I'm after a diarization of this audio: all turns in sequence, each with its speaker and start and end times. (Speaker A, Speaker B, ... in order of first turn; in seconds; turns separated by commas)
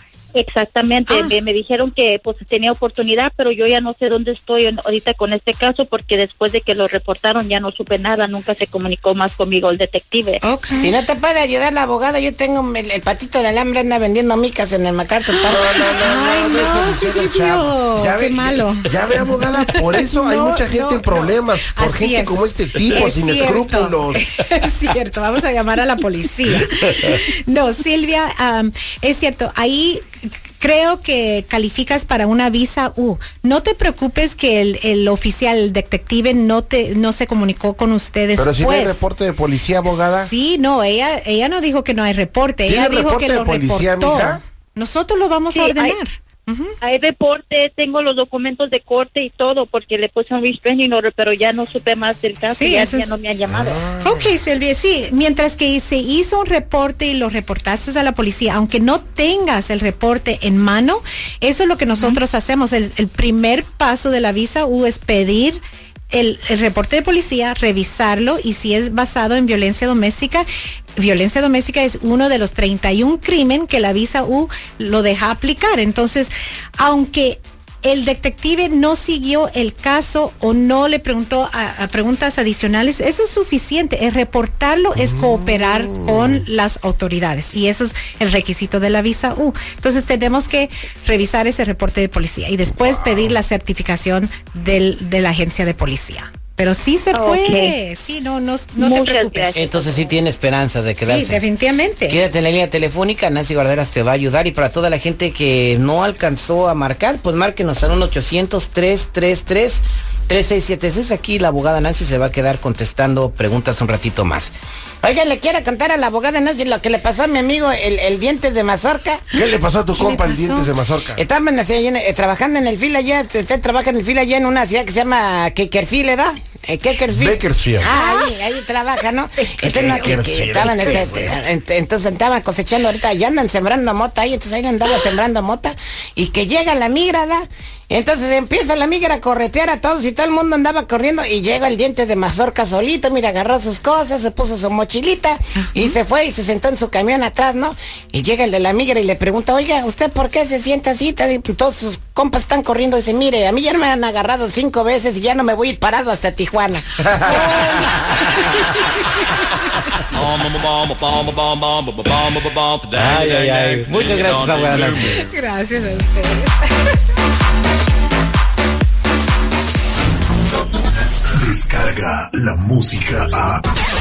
Speaker A: 0.3-10.4, Speaker B: 1.1-1.3, Speaker B: 10.4-10.9, Speaker C: 10.8-15.7, Speaker B: 15.3-39.0, Speaker D: 15.5-24.2, Speaker D: 38.4-40.3, Speaker B: 39.9-46.7, Speaker D: 42.6-44.4, Speaker A: 45.5-46.0, Speaker A: 46.8-53.8, Speaker B: 52.5-53.1, Speaker D: 53.5-54.3, Speaker B: 54.0-65.6, Speaker B: 66.1-70.5, Speaker B: 71.0-99.5, Speaker D: 85.0-86.4, Speaker D: 92.8-93.3, Speaker A: 97.1-97.7, Speaker A: 98.8-100.2, Speaker C: 99.5-101.4, Speaker B: 101.0-102.2, Speaker C: 102.1-119.2, Speaker D: 119.3-121.2, Speaker B: 120.0-120.7, Speaker C: 121.2-157.4, Speaker D: 127.1-127.9, Speaker B: 127.8-128.4, Speaker B: 129.4-131.2, Speaker D: 129.6-131.4, Speaker B: 145.6-145.9, Speaker D: 157.1-157.7, Speaker B: 157.2-157.9, Speaker E: 160.1-165.2, Speaker C: 162.9-165.2, Speaker B: 165.1-166.9, Speaker E: 171.4-173.6